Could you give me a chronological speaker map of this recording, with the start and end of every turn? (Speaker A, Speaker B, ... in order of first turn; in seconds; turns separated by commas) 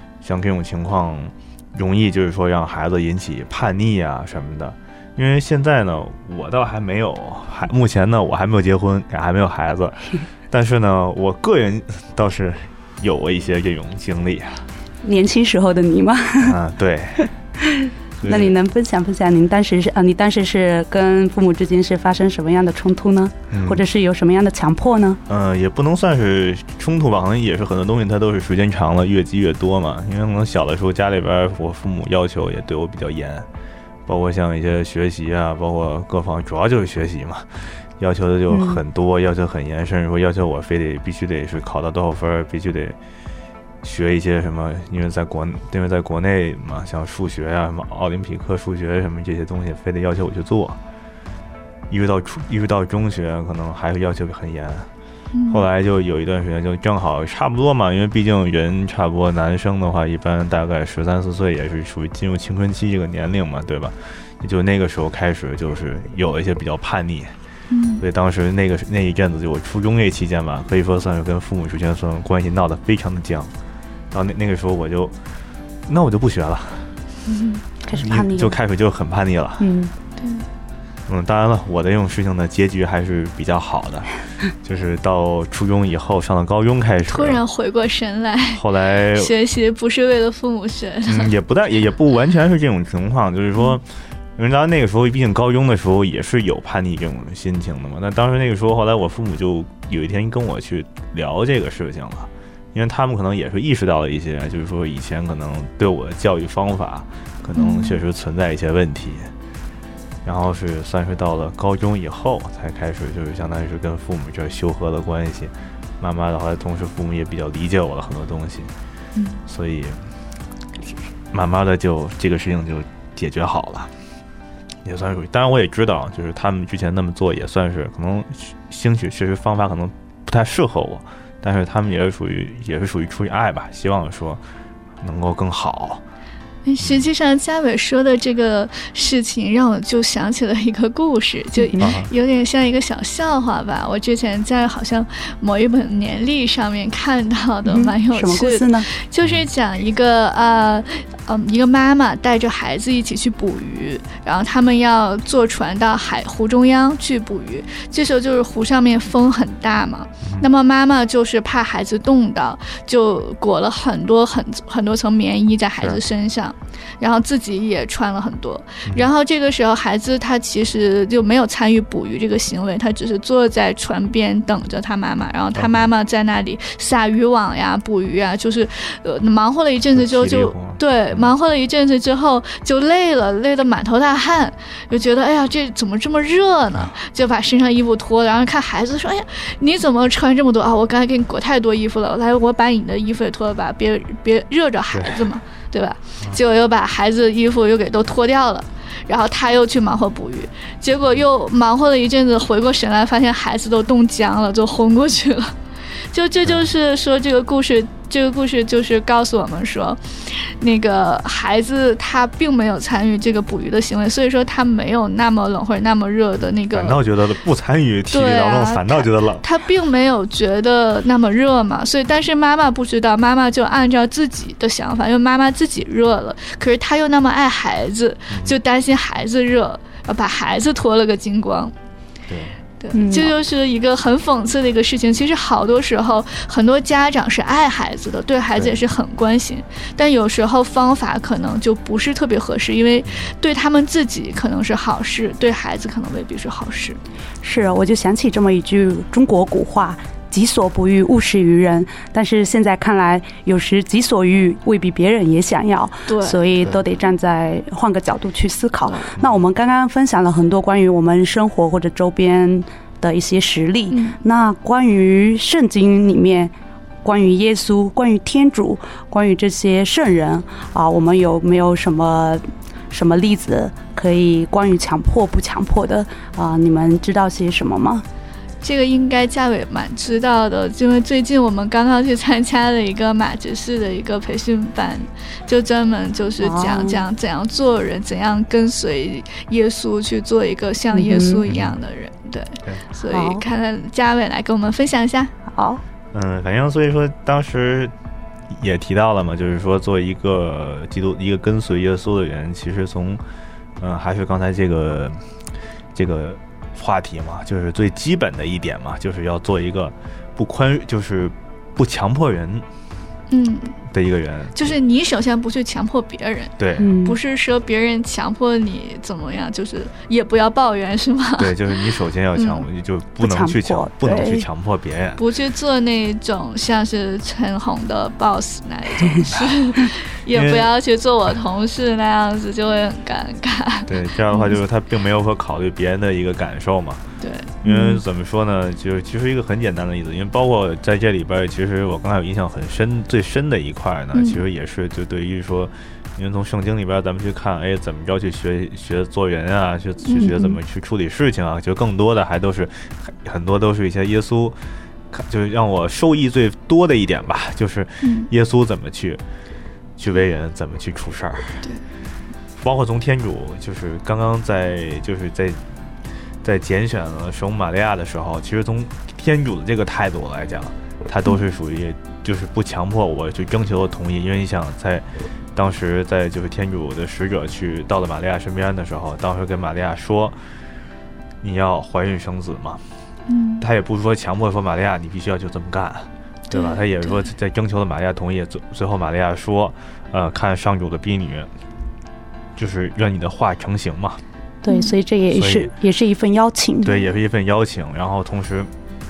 Speaker A: 0.2-14.7, Speaker B: 15.0-16.6, Speaker A: 16.4-17.3, Speaker B: 17.2-25.2, Speaker A: 18.2-18.6, Speaker A: 23.5-23.8, Speaker A: 25.3-33.5, Speaker A: 34.1-43.0, Speaker B: 38.5-38.8, Speaker A: 43.8-50.8, Speaker A: 51.9-54.9, Speaker C: 55.3-55.7, Speaker A: 55.5-67.3, Speaker C: 67.7-68.0, Speaker A: 68.0-73.5, Speaker A: 74.1-75.1, Speaker A: 75.9-77.0, Speaker C: 77.3-77.6, Speaker B: 77.9-78.6, Speaker A: 77.9-79.7, Speaker B: 79.6-79.9, Speaker C: 80.2-80.5, Speaker A: 81.1-87.4, Speaker C: 87.1-91.3, Speaker A: 88.5-89.3, Speaker A: 91.1-109.3, Speaker C: 107.5-108.0, Speaker A: 110.2-118.7, Speaker C: 119.2-119.4, Speaker A: 119.5-120.0, Speaker A: 121.3-123.9, Speaker A: 124.8-134.4, Speaker A: 135.0-136.0, Speaker C: 136.7-205.6, Speaker A: 136.8-137.1, Speaker B: 141.6-141.9, Speaker A: 141.8-142.1, Speaker B: 147.7-148.9, Speaker A: 175.5-175.9, Speaker A: 179.9-181.3, Speaker A: 194.9-195.2, Speaker C: 206.1-217.0, Speaker A: 206.4-206.7, Speaker A: 216.4-219.4, Speaker C: 218.1-231.7, Speaker A: 228.3-228.6, Speaker A: 232.3-232.6, Speaker C: 232.8-247.0, Speaker B: 232.9-233.3, Speaker A: 243.1-243.3, Speaker B: 247.4-266.5, Speaker C: 256.1-256.4, Speaker C: 263.9-264.2, Speaker B: 267.0-278.1, Speaker C: 278.6-295.3, Speaker B: 286.4-287.0, Speaker B: 290.9-291.4, Speaker A: 291.5-291.8, Speaker B: 293.1-293.4, Speaker B: 295.5-295.8, Speaker A: 296.1-297.9, Speaker A: 298.5-303.2, Speaker A: 303.8-305.2, Speaker A: 305.9-312.7, Speaker C: 313.3-313.8, Speaker A: 313.9-314.6, Speaker C: 314.6-322.7, Speaker A: 316.6-316.9, Speaker B: 316.8-317.2, Speaker A: 321.4-325.2, Speaker B: 323.2-324.5, Speaker C: 325.2-334.6, Speaker A: 330.3-330.7, Speaker A: 333.9-337.0, Speaker C: 337.2-337.5, Speaker A: 337.6-354.6, Speaker B: 337.6-338.0, Speaker C: 344.1-344.4, Speaker C: 350.1-350.4, Speaker B: 350.2-350.5, Speaker A: 355.1-359.2, Speaker C: 358.0-358.3, Speaker A: 360.0-361.7, Speaker A: 362.6-365.6, Speaker A: 366.4-380.4, Speaker A: 381.4-382.8, Speaker C: 383.3-383.7, Speaker A: 383.6-391.5, Speaker C: 386.5-387.3, Speaker A: 392.6-394.2, Speaker B: 394.6-396.9, Speaker C: 394.7-395.0, Speaker A: 395.3-395.7, Speaker A: 396.8-398.7